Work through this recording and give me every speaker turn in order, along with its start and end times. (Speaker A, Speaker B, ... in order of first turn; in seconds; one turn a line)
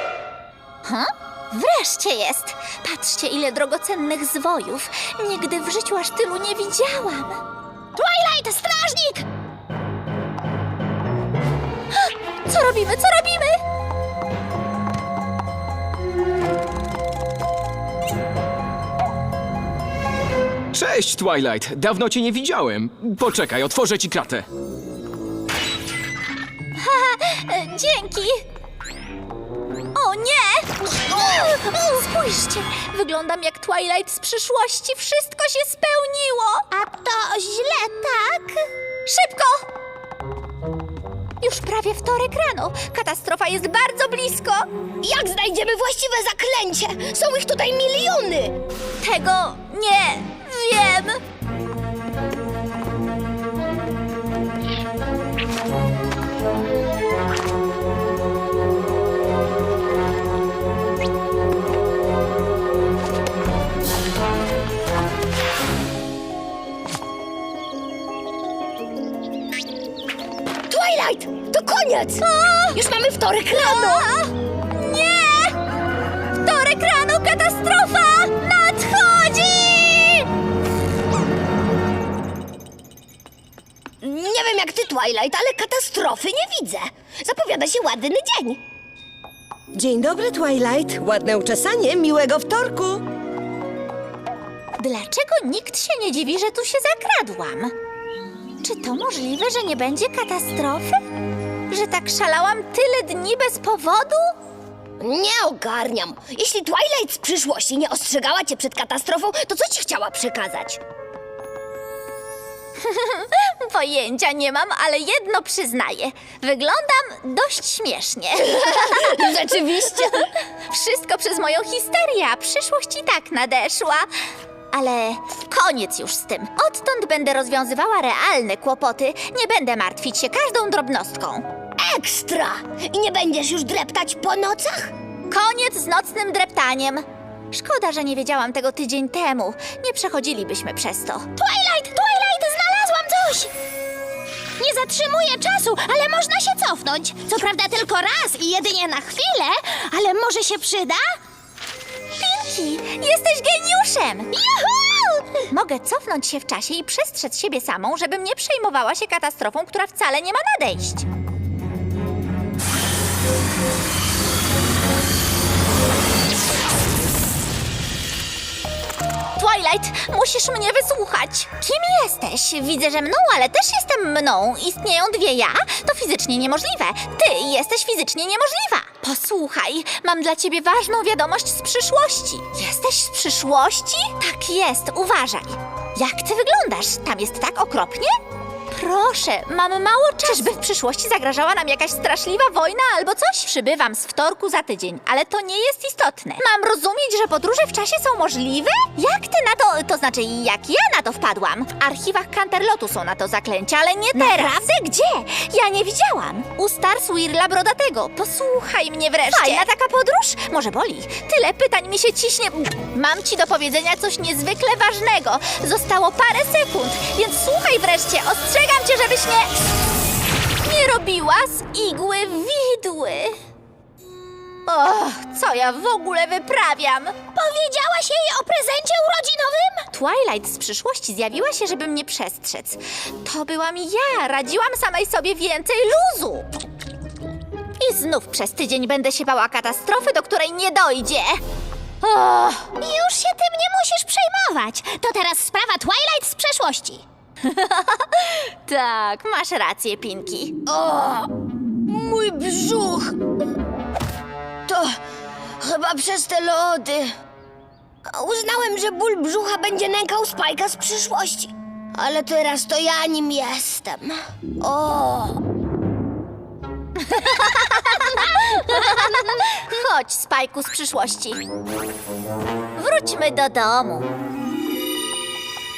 Speaker A: 0.8-7.4
Speaker B: 8.0-9.3
Speaker A: 12.0-13.6
Speaker C: 20.7-24.5
Speaker A: 26.8-28.4
Speaker A: 29.9-36.7
Speaker B: 36.7-38.6
Speaker A: 39.1-39.6
Speaker A: 41.4-44.7
Speaker D: 45.0-48.6
Speaker A: 49.0-51.2
Speaker D: 70.7-74.1
Speaker A: 72.2-72.8
Speaker A: 73.5-75.6
Speaker A: 76.4-80.3
Speaker D: 84.0-88.6
Speaker E: 89.7-93.0
Speaker A: 94.8-97.7
Speaker A: 98.6-101.0
Speaker A: 101.7-104.3
Speaker D: 105.0-110.8
Speaker A: 112.8-119.4
Speaker D: 118.6-120.2
Speaker A: 120.0-124.1
Speaker A: 124.7-131.5
Speaker D: 131.8-134.9
Speaker A: 135.3-141.3
Speaker B: 141.4-143.5
Speaker B: 144.6-151.2
Speaker A: 152.1-154.3
Speaker B: 154.4-155.3
Speaker A: 155.5-161.1
Speaker A: 169.4-188.2
Speaker A: 188.7-219.5
Speaker B: 209.3-209.7
Speaker A: 220.6-223.4
Speaker A: 224.7-227.2
Speaker B: 227.3-229.9
Speaker A: 229.9-236.5
Speaker A: 237.8-241.4
Speaker D: 242.0-242.4
Speaker B: 242.6-247.0
Speaker A: 247.5-250.6
Speaker D: 250.7-251.3
Speaker D: 251.9-253.2
Speaker D: 254.7-255.0
Speaker D: 255.6-257.1
Speaker D: 258.1-265.4
Speaker A: 267.0-271.4
Speaker A: 272.8-274.1